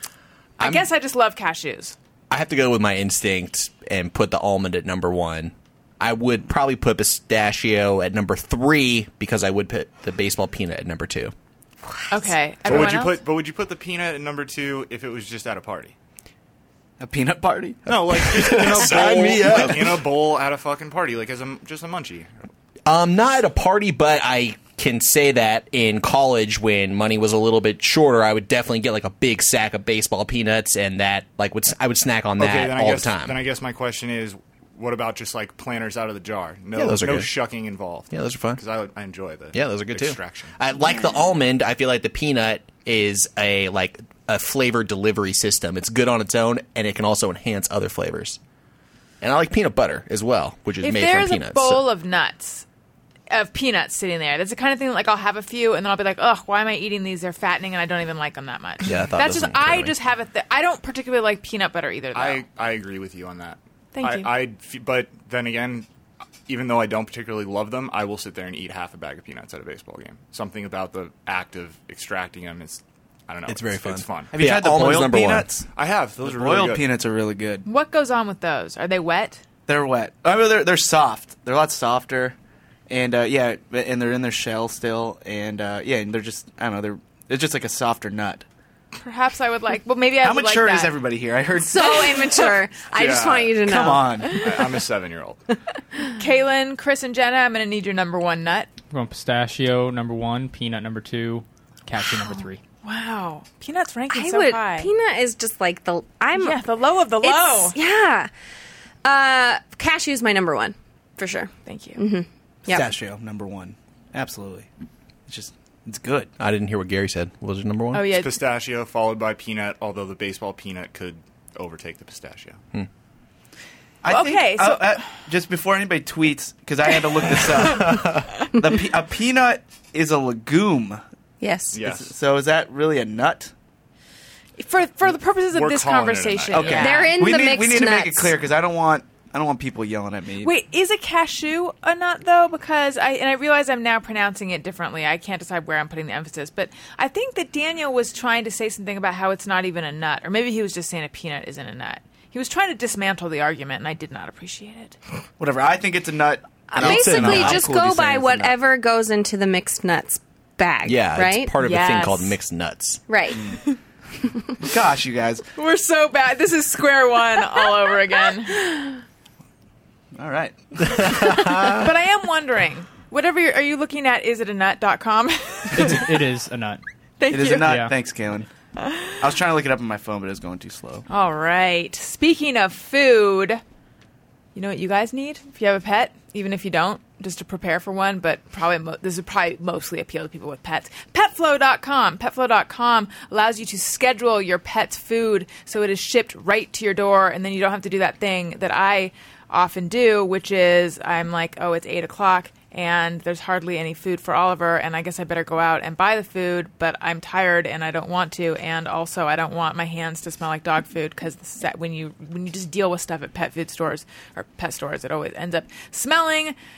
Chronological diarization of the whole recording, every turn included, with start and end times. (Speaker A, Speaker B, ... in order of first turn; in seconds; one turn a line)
Speaker A: 0.6-1.9
Speaker B: 0.6-0.8
Speaker B: 2.3-11.3
Speaker A: 12.1-13.2
Speaker C: 12.6-15.9
Speaker D: 17.0-19.9
Speaker C: 17.9-22.3
Speaker B: 18.1-20.0
Speaker B: 22.9-33.4
Speaker C: 32.4-40.6
Speaker B: 36.7-37.3
Speaker B: 38.1-38.6
Speaker B: 39.5-48.4
Speaker B: 49.2-51.8
Speaker A: 50.8-52.6
Speaker A: 53.3-62.4
Speaker B: 58.8-59.9
Speaker C: 62.1-65.9
Speaker A: 63.9-64.3
Speaker C: 66.5-74.4
Speaker B: 73.5-75.5
Speaker D: 74.3-75.7
Speaker C: 75.7-76.9
Speaker D: 76.2-77.7
Speaker A: 77.7-79.4
Speaker D: 79.7-82.4
Speaker D: 82.9-88.4
Speaker A: 89.0-90.9
Speaker D: 90.2-92.3
Speaker E: 91.6-94.3
Speaker C: 92.9-93.6
Speaker D: 93.6-94.4
Speaker C: 94.3-95.4
Speaker A: 96.1-98.7
Speaker F: 98.9-102.6
Speaker A: 102.8-104.9
Speaker E: 104.1-106.6
Speaker A: 106.4-107.8
Speaker E: 107.2-108.3
Speaker E: 109.0-112.9
Speaker A: 111.7-112.0
Speaker D: 112.7-114.7
Speaker D: 115.3-116.3
Speaker B: 116.4-118.1
Speaker A: 117.9-118.4
Speaker C: 118.1-122.6
Speaker D: 124.0-131.0
Speaker A: 124.1-125.1
Speaker B: 127.6-128.3
Speaker E: 131.4-131.8
Speaker C: 131.7-132.1
Speaker D: 131.8-133.5
Speaker A: 134.6-137.1
Speaker C: 135.5-137.1
Speaker D: 136.5-140.5
Speaker E: 136.8-138.3
Speaker A: 140.4-154.9
Speaker D: 155.4-158.5
Speaker E: 156.7-161.5
Speaker B: 156.8-157.7
Speaker B: 160.8-163.0
Speaker A: 161.6-162.4
Speaker E: 163.1-163.4
Speaker D: 164.6-165.4
Speaker A: 165.6-168.7
Speaker D: 170.1-171.1
Speaker B: 170.9-171.9
Speaker A: 171.7-176.2
Speaker F: 175.7-176.8
Speaker A: 177.2-177.8
Speaker D: 177.3-178.5
Speaker F: 177.6-177.9
Speaker A: 178.8-179.1
Speaker D: 179.2-181.0
Speaker A: 181.1-183.6
Speaker A: 184.5-216.5